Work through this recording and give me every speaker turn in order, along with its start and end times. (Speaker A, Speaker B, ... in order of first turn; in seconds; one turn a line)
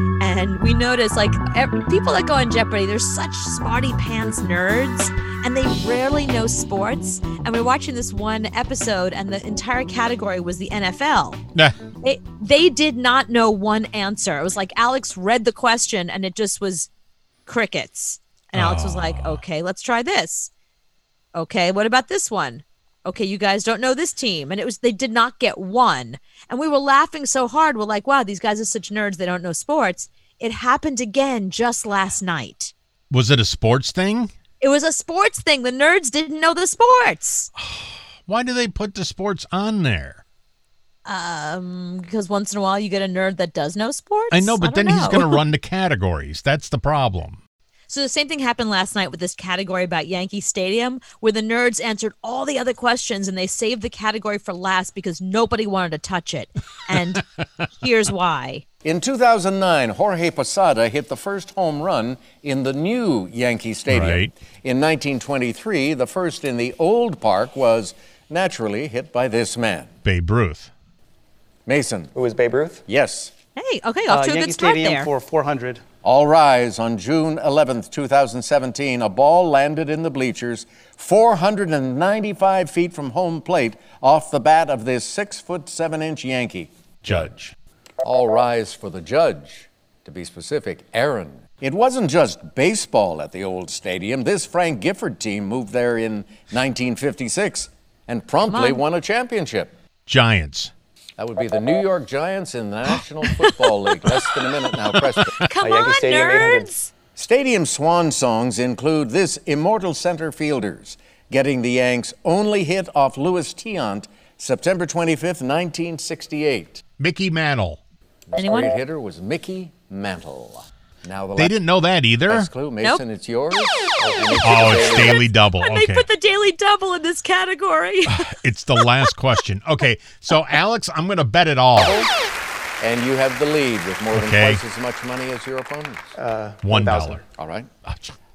Speaker A: 0.2-11.4
Speaker A: 12.0-16.9
Speaker A: 17.5-20.5
Speaker B: 18.5-19.4
Speaker A: 21.3-32.7
Speaker B: 33.1-34.3
Speaker A: 34.6-37.5
Speaker B: 37.6-40.2
Speaker A: 41.0-45.3
Speaker B: 44.3-47.4
Speaker A: 47.9-57.2
Speaker A: 57.8-58.6
Speaker C: 58.8-69.9
Speaker B: 63.9-64.3
Speaker B: 70.0-70.7
Speaker C: 71.7-72.1
Speaker D: 72.1-72.8
Speaker C: 72.9-73.3
Speaker A: 73.6-75.1
Speaker D: 74.1-75.8
Speaker C: 76.0-87.2
Speaker B: 87.0-87.5
Speaker C: 88.0-99.7
Speaker A: 98.5-98.8
Speaker B: 100.1-100.7
Speaker C: 101.2-105.3
Speaker A: 105.3-106.9
Speaker D: 105.6-106.7
Speaker C: 107.2-116.8
Speaker B: 117.0-117.8
Speaker C: 118.3-121.5
Speaker A: 118.3-118.7
Speaker B: 121.4-122.5
Speaker C: 122.3-125.2
Speaker D: 124.0-125.0
Speaker B: 124.4-126.0
Speaker A: 125.6-128.2
Speaker B: 128.1-132.0
Speaker C: 132.8-136.1
Speaker B: 134.1-134.6
Speaker D: 136.2-137.2
Speaker B: 136.6-137.2
Speaker C: 137.4-137.7
Speaker B: 137.8-138.1